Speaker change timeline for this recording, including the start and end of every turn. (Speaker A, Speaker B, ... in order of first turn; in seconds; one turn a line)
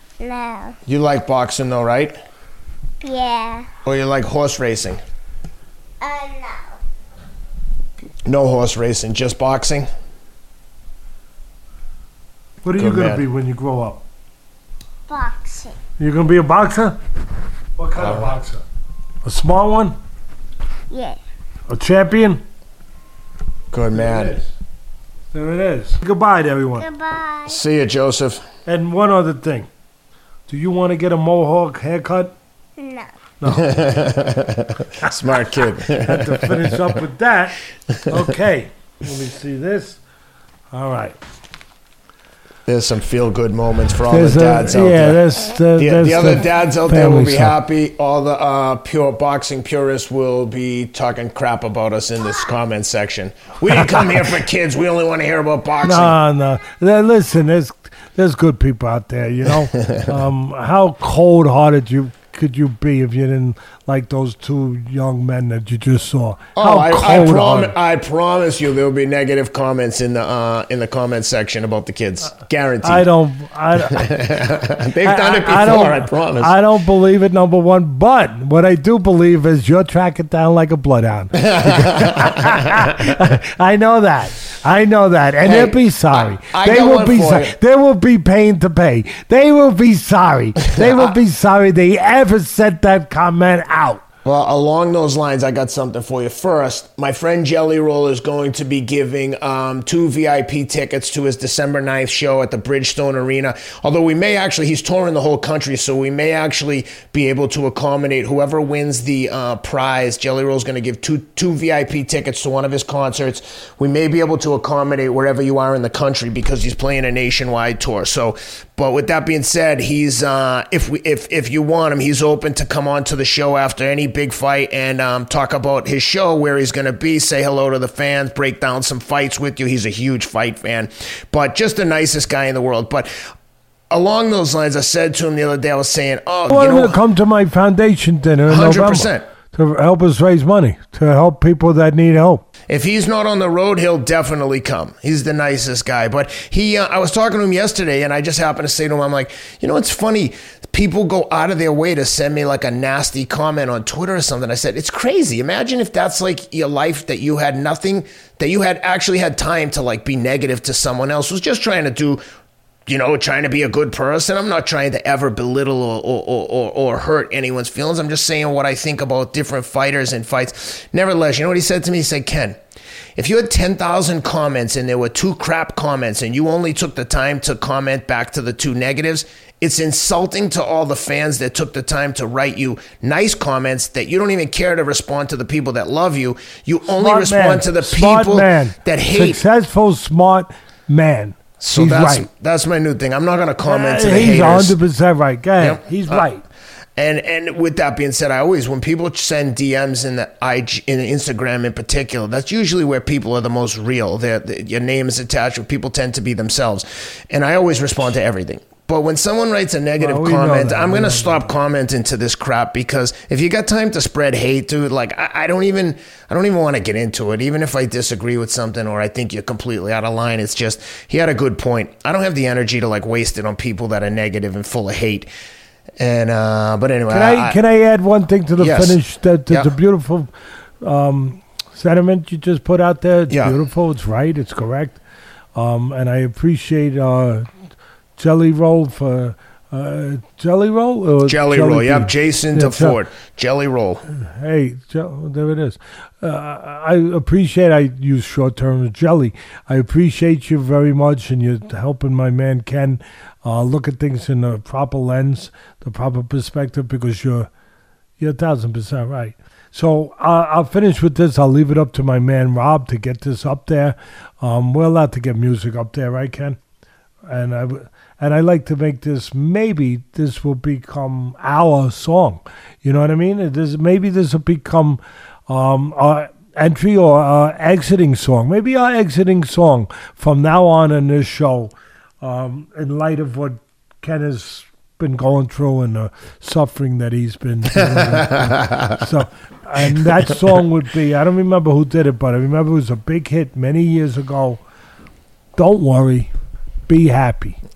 Speaker A: 0.2-0.8
Speaker B: 0.9-2.2
Speaker A: 3.0-3.7
Speaker B: 3.9-5.0
Speaker A: 6.0-6.7
Speaker B: 8.2-9.9
Speaker C: 12.6-14.0
Speaker B: 12.8-13.2
Speaker A: 15.1-15.8
Speaker C: 16.0-17.0
Speaker C: 17.8-18.6
Speaker B: 18.0-18.4
Speaker C: 19.2-20.0
Speaker A: 20.9-21.2
Speaker C: 21.7-22.4
Speaker B: 23.7-24.4
Speaker C: 23.9-24.5
Speaker C: 25.3-26.9
Speaker A: 26.8-27.6
Speaker B: 27.5-28.4
Speaker C: 28.7-29.7
Speaker C: 30.5-32.3
Speaker A: 32.8-33.1
Speaker C: 33.4-33.8
Speaker B: 33.5-37.0
Speaker C: 35.0-40.0
Speaker C: 40.7-41.2
Speaker B: 42.7-45.2
Speaker C: 44.1-47.6
Speaker B: 45.8-56.1
Speaker C: 53.8-54.2
Speaker C: 55.8-67.7
Speaker B: 59.7-60.1
Speaker B: 66.6-73.0
Speaker C: 72.8-74.1
Speaker B: 73.8-76.5
Speaker C: 75.0-94.0
Speaker B: 81.3-83.2
Speaker B: 85.4-87.5
Speaker B: 90.8-91.1
Speaker B: 94.2-133.1
Speaker B: 133.9-137.0
Speaker C: 136.5-142.4
Speaker B: 138.5-139.2
Speaker B: 142.7-162.2
Speaker B: 162.9-172.6
Speaker B: 173.2-189.4
Speaker C: 186.9-192.3
Speaker B: 191.6-194.8
Speaker C: 193.6-196.4
Speaker B: 195.6-196.2
Speaker B: 197.0-225.3
Speaker C: 210.0-211.5
Speaker B: 226.0-227.6
Speaker C: 227.1-230.3
Speaker B: 228.6-229.7
Speaker C: 230.8-235.0
Speaker B: 233.3-233.6
Speaker C: 235.6-237.5
Speaker C: 238.2-243.0
Speaker B: 241.3-244.0
Speaker C: 244.1-257.5
Speaker C: 258.2-266.6
Speaker C: 267.3-294.6
Speaker B: 287.9-289.0
Speaker B: 290.0-290.4
Speaker C: 295.6-296.3
Speaker C: 296.9-297.6